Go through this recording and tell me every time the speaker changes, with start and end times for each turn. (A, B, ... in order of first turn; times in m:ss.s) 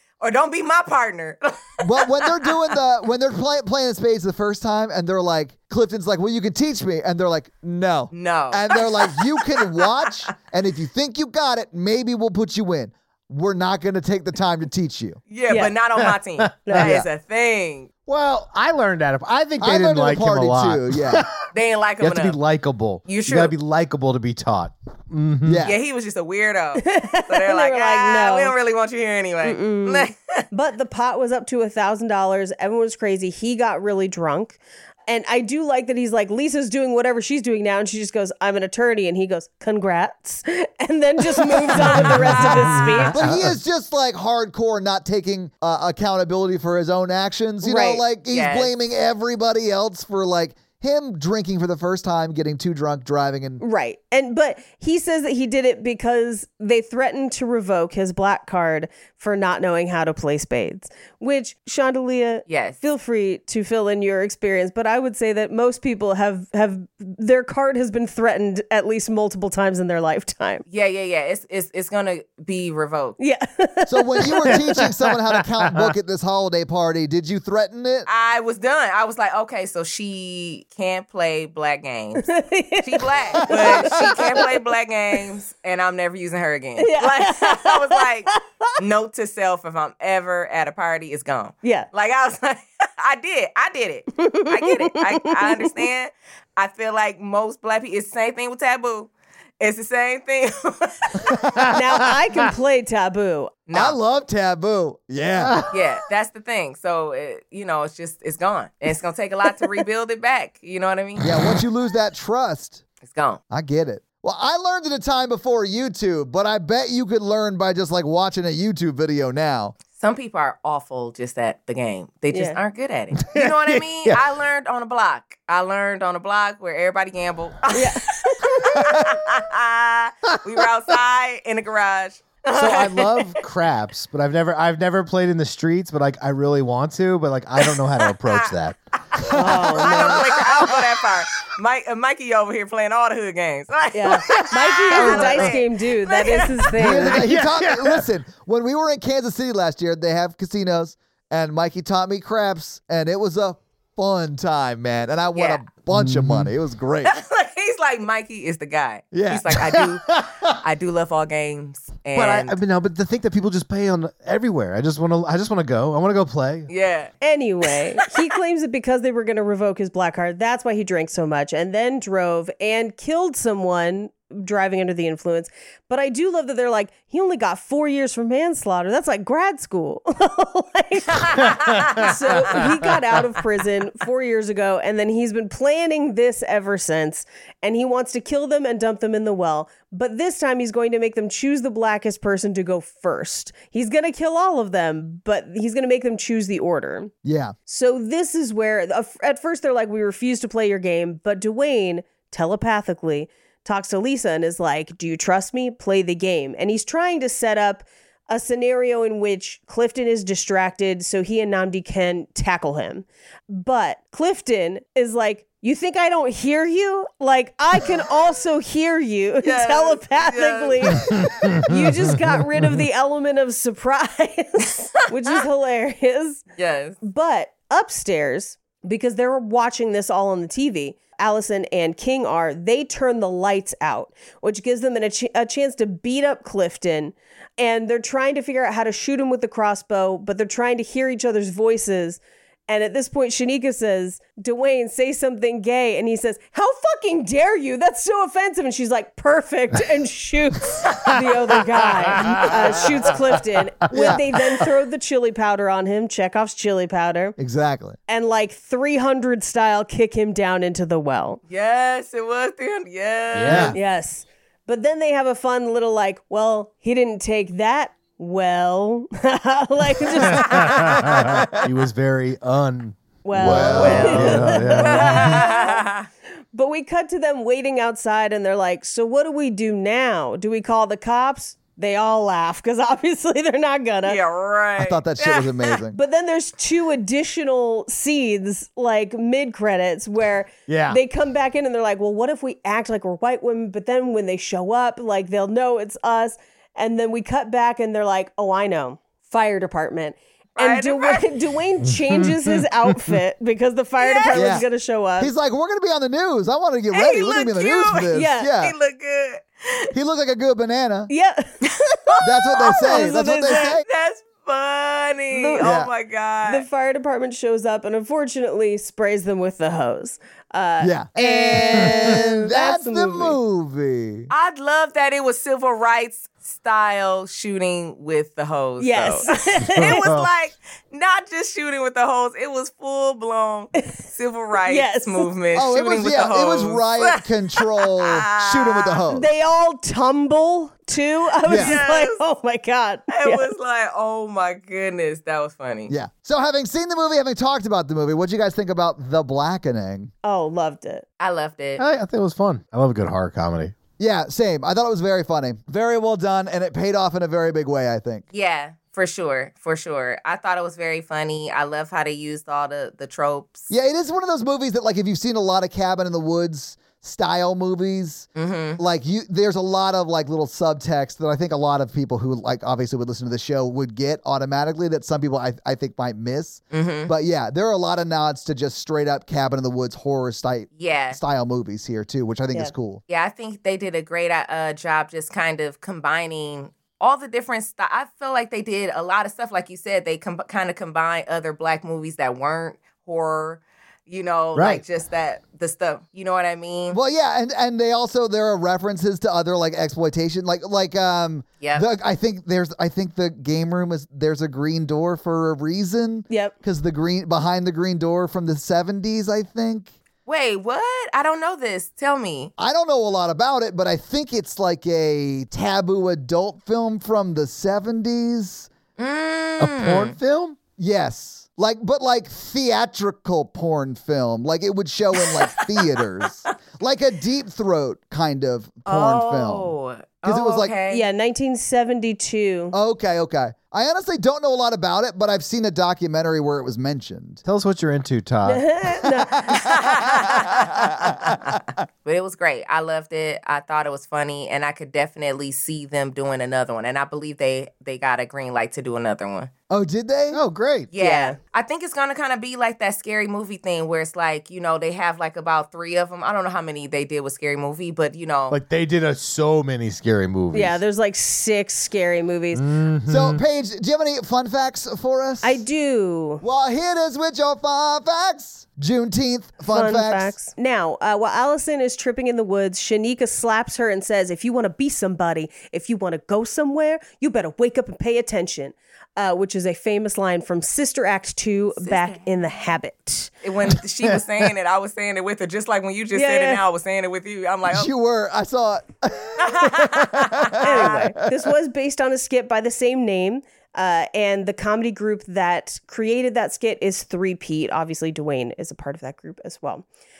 0:00.2-0:02.7 A
0:01.8-0:15.2 B
0:08.1-0:09.2 A
0:15.3-0:17.9 A
0:15.5-0:15.7 C
0:16.6-0:16.9 C
0:16.6-0:17.0 D
0:18.1-0:21.3 D
0:19.6-0:21.2 B
0:21.5-0:22.4 A
0:22.0-0:25.6 D
0:23.0-0:23.5 A
0:25.4-0:25.8 B
0:25.6-0:30.4 A
0:26.8-0:28.5 C
0:29.4-0:43.2 C
0:41.7-0:42.9 A
0:41.8-0:43.5 D
0:43.1-0:53.6 B
0:47.6-0:48.0 C
0:48.3-0:48.7 A
0:53.6-1:10.6 C
1:02.5-1:02.8 A
1:10.7-1:13.2 A
1:13.2-1:14.6 C
1:13.9-1:18.1 B
1:18.0-1:22.3 A
1:22.2-1:24.5 C
1:22.8-1:41.4 A
1:26.8-1:28.7 C
1:34.2-1:35.8 C
1:41.4-1:41.9 D
1:41.7-1:43.5 C
1:43.7-1:44.0 A
1:43.7-1:45.6 B
1:45.4-1:45.7 D
1:45.7-1:51.2 A
1:51.2-1:52.8 B
1:53.0-1:53.4 A
1:53.5-1:59.7 B
1:59.9-2:13.3 A
2:02.3-2:02.6 C
2:03.2-2:04.2 D
2:07.7-2:08.6 C
2:12.5-2:20.8 D
2:17.6-2:18.4 A
2:19.2-2:26.7 A
2:19.3-2:20.2 C
2:23.9-2:27.2 C
2:25.0-2:25.5 B
2:26.7-2:28.1 D
2:26.7-2:37.1 B
2:35.3-2:35.6 A
2:35.9-2:36.5 D
2:37.0-2:42.5 A
2:39.1-2:39.6 B
2:40.1-2:40.5 D
2:42.1-2:46.7 D
2:46.7-2:47.1 A
2:47.2-3:17.1 C
3:01.3-3:02.6 A
3:01.5-3:02.6 D
3:17.2-3:17.5 B
3:17.7-3:46.4 C
3:39.4-3:41.3 A
3:41.1-3:41.8 D
3:46.6-3:47.0 A
3:47.0-4:17.4 C
4:12.2-4:12.5 D
4:13.9-4:14.2 B
4:17.4-4:18.0 B
4:18.1-4:21.4 C
4:21.5-4:23.7 A
4:23.3-4:23.7 D
4:23.5-4:23.8 B
4:23.7-4:31.2 C
4:30.3-4:35.4 D
4:30.5-4:31.2 A
4:33.2-4:35.8 C
4:33.4-4:34.6 B
4:33.7-4:36.1 A
4:36.5-4:44.2 C
4:44.0-4:45.8 A
4:44.8-4:46.0 B
4:45.9-5:05.3 C
4:50.7-4:51.0 D
5:00.6-5:01.2 A
5:02.0-5:02.4 D
5:04.0-5:04.6 A
5:04.3-5:04.6 B
5:05.2-5:08.7 B
5:06.9-5:09.9 A
5:08.1-5:08.5 C
5:09.9-5:11.1 B
5:11.1-5:13.7 C
5:12.1-5:16.6 A
5:12.2-5:13.8 B
5:15.3-5:15.7 C
5:15.6-5:15.9 B
5:16.4-5:23.4 C
5:20.8-5:24.3 B
5:24.3-5:39.0 A
5:28.8-5:30.0 C
5:29.8-5:30.3 D
5:34.7-5:35.3 C
5:35.5-5:39.3 B
5:39.1-5:43.5 C
5:41.5-5:41.8 B
5:41.5-5:42.2 A
5:43.1-5:45.9 A
5:45.9-5:50.1 B
5:50.2-5:51.0 C
5:51.2-5:51.8 A
5:51.8-5:53.7 D
5:54.0-5:58.2 B
5:58.3-6:03.7 A
6:03.7-6:23.0 B
6:08.4-6:08.8 A
6:16.7-6:17.1 A
6:20.8-6:21.2 A
6:23.1-6:37.0 A
6:34.6-6:34.8 D
6:36.9-6:49.9 B
6:46.3-6:46.5 C
6:50.2-6:52.5 A
6:52.6-6:58.7 B
6:59.0-7:00.2 A
6:59.6-7:00.6 D
7:00.8-7:10.7 B
7:05.2-7:05.7 A
7:08.8-7:11.0 A
7:10.9-7:12.7 C
7:12.7-7:17.4 B
7:17.4-7:18.6 D
7:18.4-7:19.5 C
7:19.5-7:21.6 B
7:19.5-7:29.5 A
7:29.7-7:30.4 B
7:30.3-7:30.9 D
7:30.9-7:38.6 A
7:31.0-7:31.4 C
7:38.5-7:40.8 D
7:40.5-7:42.6 C
7:42.5-7:43.4 D
7:43.1-7:45.6 B
7:45.4-7:46.4 C
7:46.4-7:50.3 B
7:49.7-8:03.3 C
8:01.8-8:02.5 A
8:03.4-8:07.9 A
8:06.1-8:06.6 C
8:07.7-8:11.1 B
8:09.4-8:10.8 A
8:10.6-8:19.8 C